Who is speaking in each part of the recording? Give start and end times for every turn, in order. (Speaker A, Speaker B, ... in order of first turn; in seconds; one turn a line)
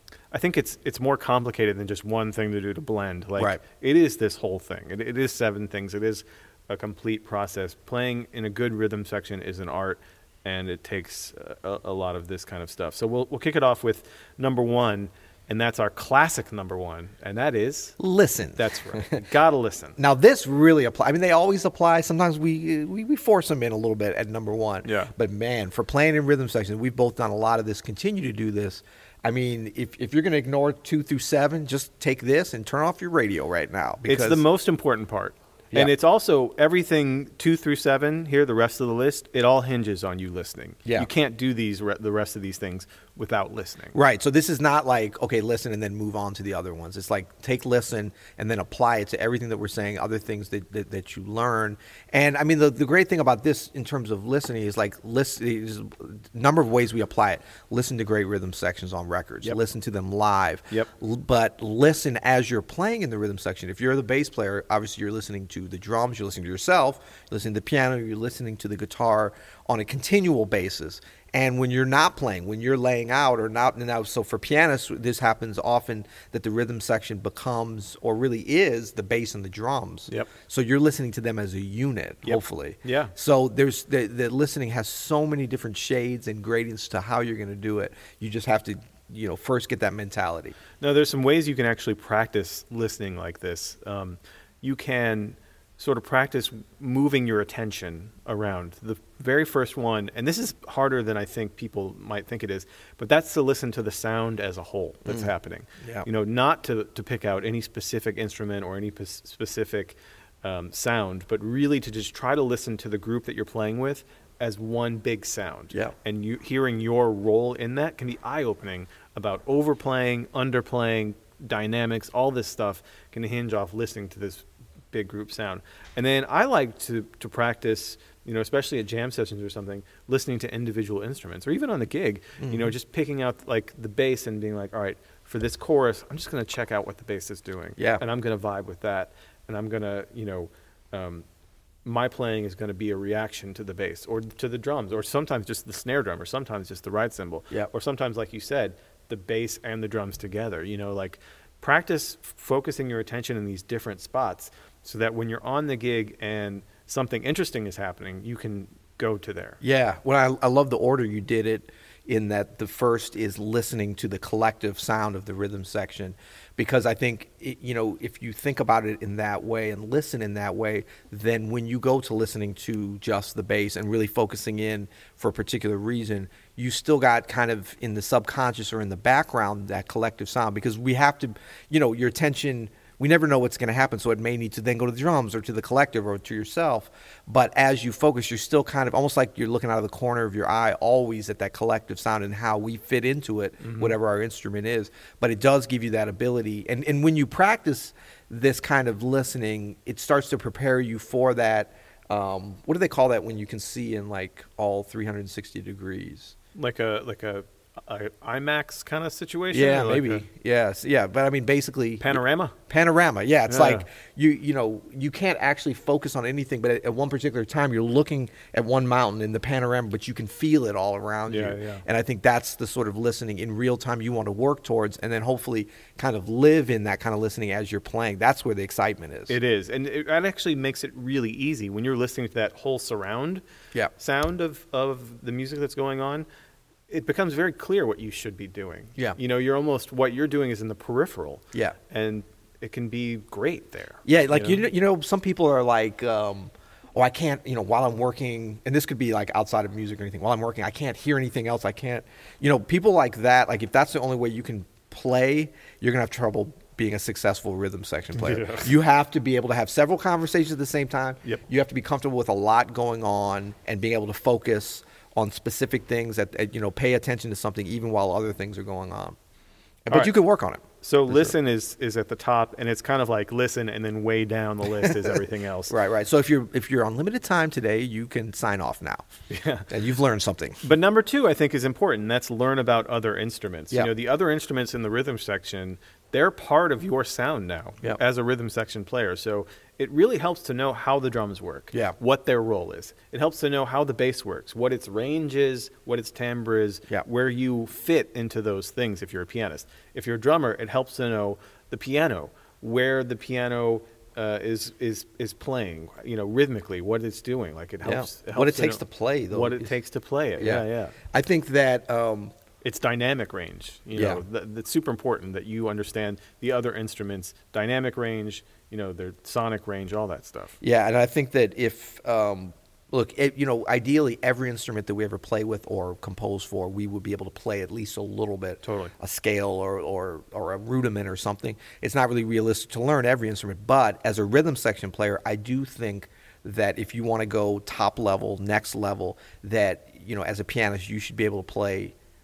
Speaker A: 0.3-17.9
Speaker B: 18.0-19.2
Speaker A: 18.6-20.0
Speaker B: 20.0-34.5
Speaker A: 24.8-25.1
Speaker A: 34.0-43.9
Speaker B: 43.9-90.6
Speaker A: 82.2-83.1
Speaker A: 90.8-141.2
Speaker B: 105.8-106.1
Speaker B: 132.4-132.7
Speaker B: 137.8-138.0
Speaker A: 141.8-159.6
Speaker B: 159.6-206.3
Speaker A: 193.6-193.9
Speaker A: 206.5-210.2
Speaker B: 209.5-229.3
Speaker A: 212.0-212.6
Speaker A: 213.5-213.8
Speaker A: 221.3-221.8
Speaker A: 229.3-233.4
Speaker A: 234.0-236.2
Speaker A: 236.9-244.6
Speaker B: 244.1-269.2
Speaker A: 258.1-258.7
Speaker B: 269.9-271.3
Speaker A: 269.9-270.2
Speaker A: 270.8-275.7
Speaker B: 274.8-275.2
Speaker B: 275.7-279.1
Speaker A: 279.3-279.7
Speaker B: 279.7-280.6
Speaker A: 280.6-308.8
Speaker B: 307.8-309.7
Speaker A: 309.3-311.0
Speaker B: 310.4-312.3
Speaker A: 312.6-320.6
Speaker B: 313.9-314.2
Speaker B: 320.6-341.9
Speaker A: 328.6-328.9